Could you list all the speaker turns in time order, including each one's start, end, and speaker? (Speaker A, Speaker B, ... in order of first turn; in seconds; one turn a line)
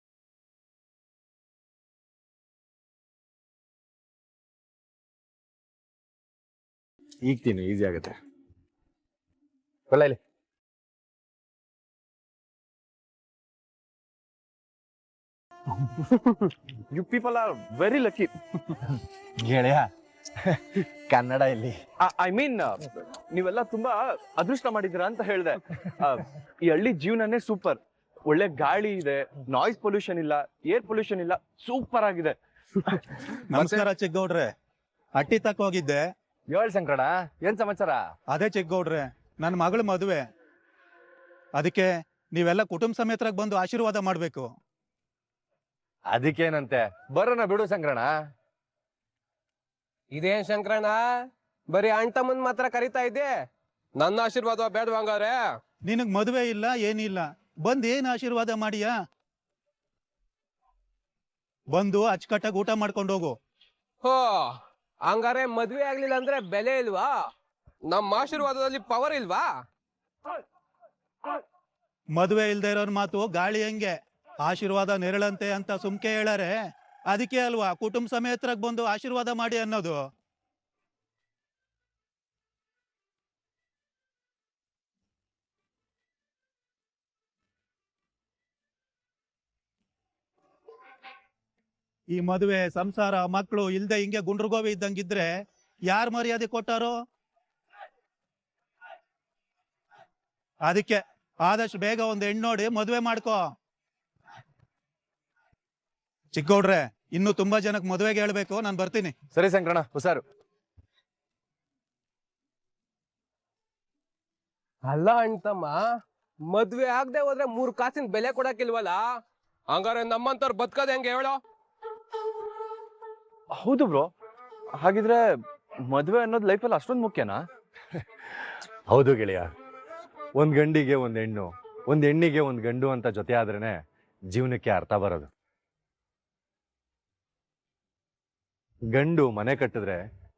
Speaker A: 7.2-8.2
Speaker A: 9.9-10.2
Speaker B: 16.9-18.3
Speaker A: 19.4-19.9
Speaker A: 21.1-21.8
Speaker B: 22.0-32.4
Speaker C: 33.5-33.9
Speaker D: 33.6-34.5
Speaker D: 35.2-36.0
Speaker A: 36.5-38.0
Speaker D: 38.3-40.2
Speaker D: 41.5-44.5
Speaker A: 46.1-48.1
Speaker C: 50.1-51.0
Speaker C: 51.7-53.4
Speaker C: 54.0-55.5
Speaker D: 55.9-58.9
Speaker D: 61.7-63.4
Speaker C: 64.0-64.5
Speaker C: 65.0-67.2
Speaker C: 67.9-69.5
Speaker D: 72.1-76.5
Speaker D: 77.1-80.0
Speaker D: 92.1-95.3
Speaker D: 95.9-96.9
Speaker D: 100.6-103.4
Speaker D: 106.3-109.1
Speaker A: 109.3-110.2
Speaker C: 114.8-115.8
Speaker C: 116.5-119.1
Speaker C: 119.7-121.4
Speaker B: 123.5-124.1
Speaker B: 124.7-125.3
Speaker B: 125.8-127.4
Speaker A: 128.9-129.5
Speaker A: 130.4-133.8
Speaker A: 134.3-135.3
Speaker A: 138.9-140.0